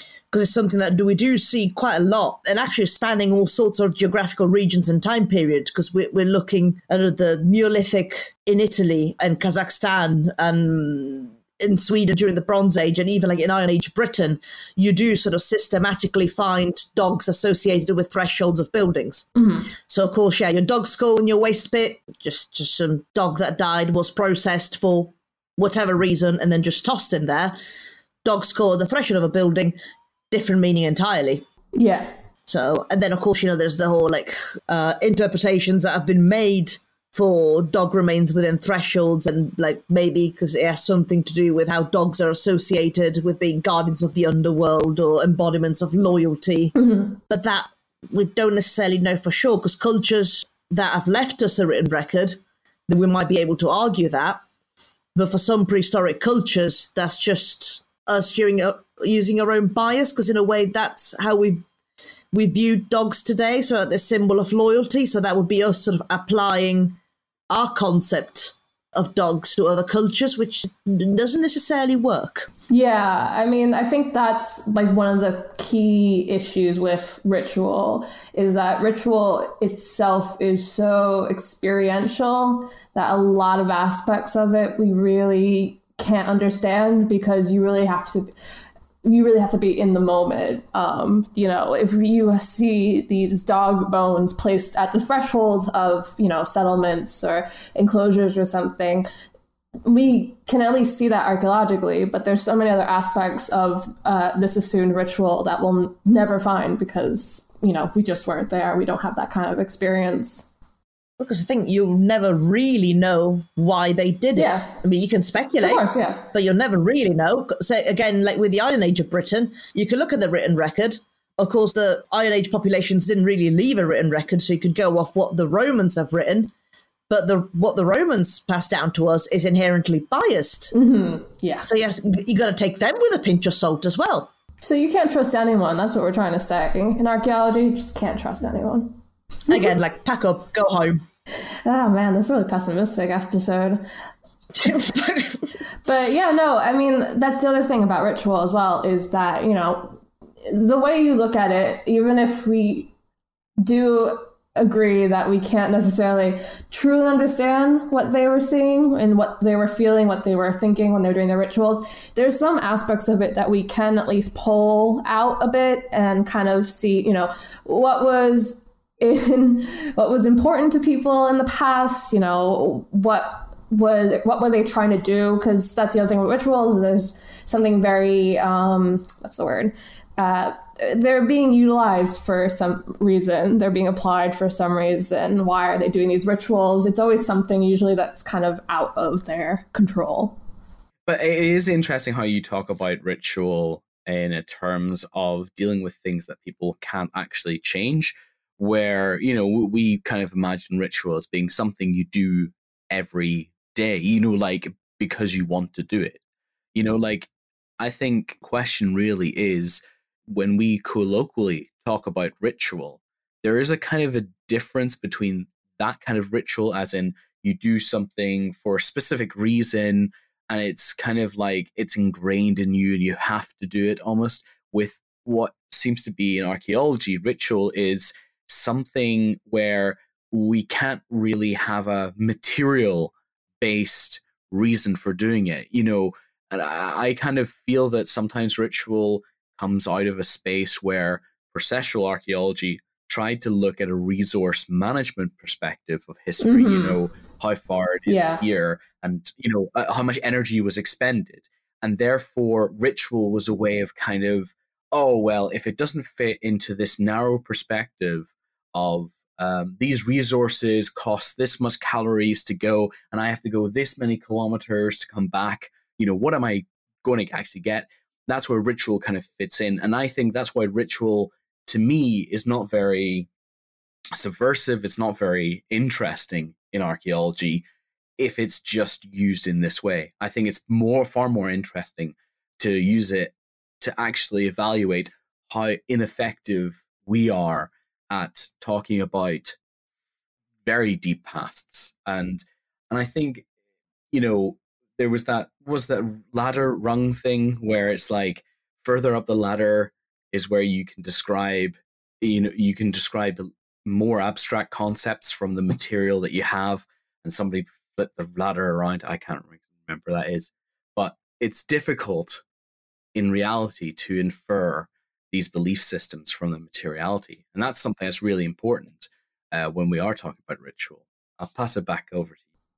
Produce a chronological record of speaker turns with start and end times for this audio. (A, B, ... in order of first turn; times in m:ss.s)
0:00.3-0:19.3 A
0:19.4-0:19.7 B
0:19.8-0:27.6 A
0:28.2-0:29.8 A
0:30.3-0:31.4 A
0:31.7-0:32.1 B
0:32.5-0:54.4 A
0:46.7-0:47.2 B
0:55.1-1:01.6 A
1:02.3-1:07.0 A
1:07.5-1:12.5 A
1:12.7-1:28.3 B
1:29.0-1:39.1 B
1:39.8-1:50.5 B
1:51.2-2:06.5 A
1:54.3-1:54.8 B
1:55.6-1:56.2 B
2:07.1-2:10.7 A
2:10.7-2:11.7 B
2:11.6-2:14.3 A
2:14.6-2:19.0 B
2:19.5-2:21.0 A
2:21.6-2:23.8 B
2:24.6-2:25.5 A
2:25.8-2:32.9 B
2:33.6-3:10.4 B
3:11.0-3:26.2 C
3:26.7-4:33.3 C
4:06.4-4:07.0 B
4:08.1-4:08.4 B
4:34.1-4:37.6 C
4:38.2-4:49.6 C
4:50.6-4:53.4 C
4:54.1-5:12.4 C
5:13.1-5:22.4 C